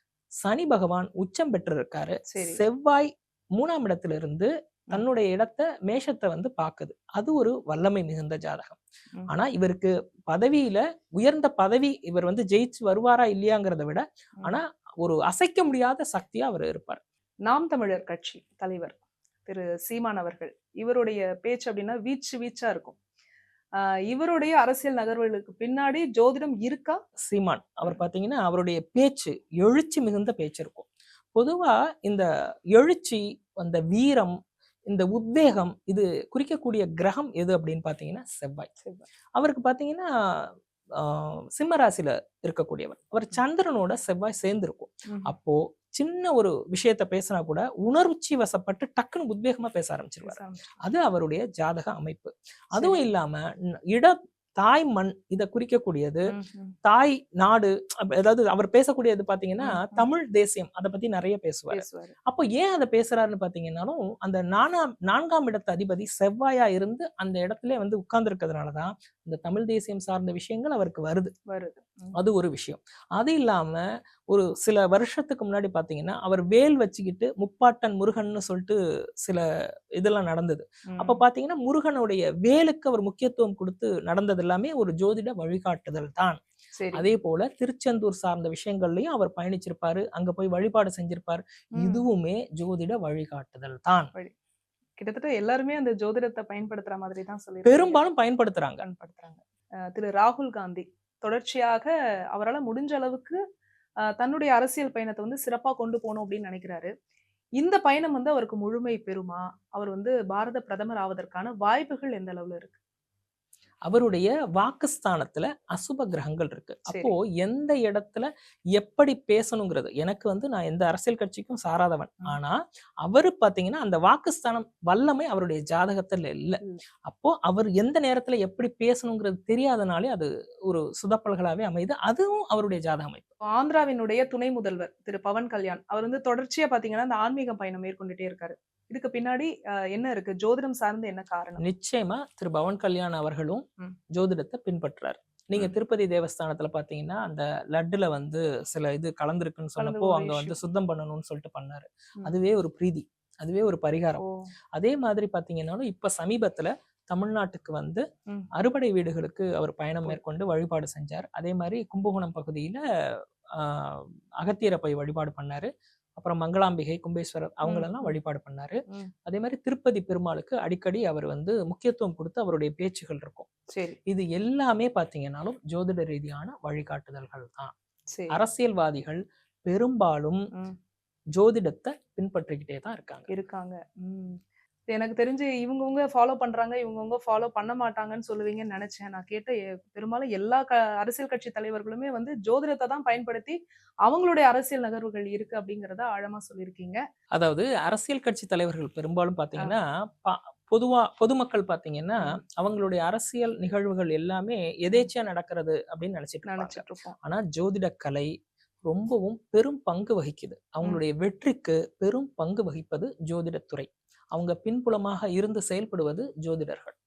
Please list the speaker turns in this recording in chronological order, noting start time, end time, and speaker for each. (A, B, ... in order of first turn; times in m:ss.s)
0:00.4-0:17.0 A
0:02.3-0:02.6 B
0:17.4-0:23.0 B
0:23.8-0:27.0 B
0:27.2-0:34.4 A
0:34.9-0:38.7 A
0:38.8-0:39.1 B
0:39.4-0:53.4 A
0:50.2-0:50.8 B
0:52.7-0:53.0 B
0:53.9-0:56.3 A
0:56.3-0:56.7 B
0:56.8-1:11.3 A
0:59.6-1:00.0 B
1:01.7-1:02.1 B
1:11.5-1:12.1 B
1:12.1-1:19.4 A
1:20.0-1:26.4 A
1:20.9-1:21.2 B
1:26.8-1:27.1 B
1:26.9-1:34.1 A
1:31.8-1:32.0 B
1:35.0-1:38.0 B
1:37.6-1:38.8 A
1:38.8-1:43.4 B
1:44.0-1:46.9 B
1:47.6-1:52.8 B
1:53.9-2:13.3 A
1:56.9-1:57.1 B
2:13.5-2:21.6 B
2:21.6-2:34.2 A
2:29.8-2:30.6 B
2:34.2-2:34.4 B
2:34.7-2:42.8 A
2:43.6-2:53.5 A
2:47.6-2:48.2 B
2:53.7-2:54.0 B
2:54.1-2:57.7 A
2:58.1-2:58.4 B
2:58.3-3:00.5 A
3:01.3-3:03.3 A
3:03.3-3:17.0 B
3:17.3-3:28.3 A
3:26.5-3:27.1 B
3:28.9-3:36.9 A